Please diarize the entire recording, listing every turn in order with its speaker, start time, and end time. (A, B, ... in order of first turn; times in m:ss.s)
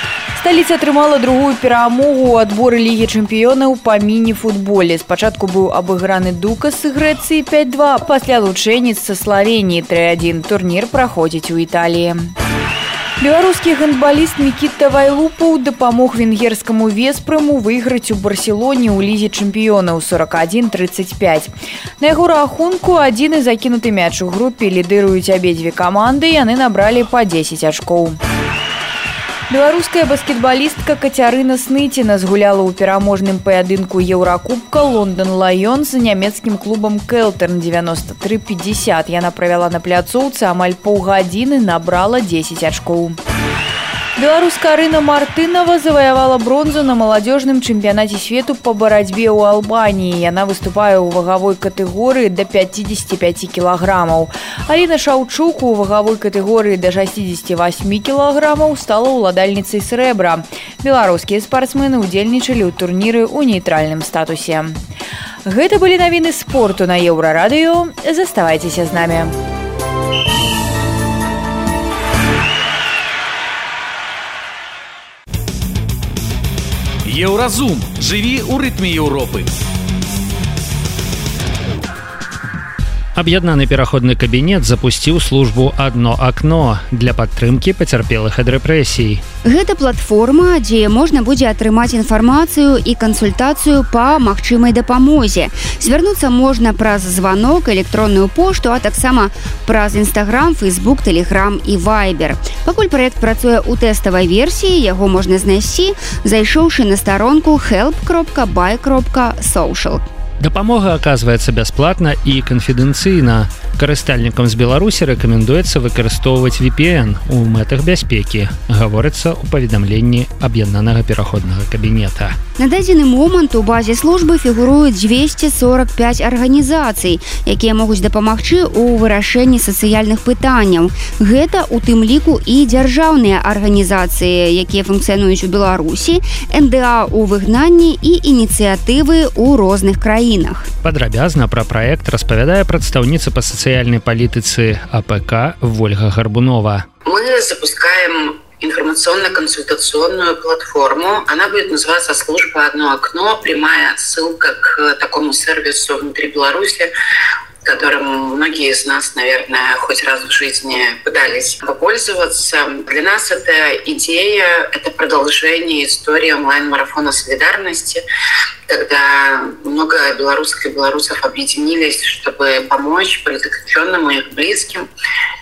0:00.4-0:12.3 A
0:13.2-0:28.2 A
0:29.5-0:43.2 A
0:44.2-1:04.8 A
1:05.4-1:09.3 A
1:17.0-1:19.5 B
1:23.1-1:29.2 C
1:29.4-1:50.0 D
1:50.4-2:02.4 C
2:02.6-2:20.7 D
2:20.8-2:26.9 C
2:27.0-2:36.9 E
2:37.6-2:48.0 E
2:48.7-2:54.9 E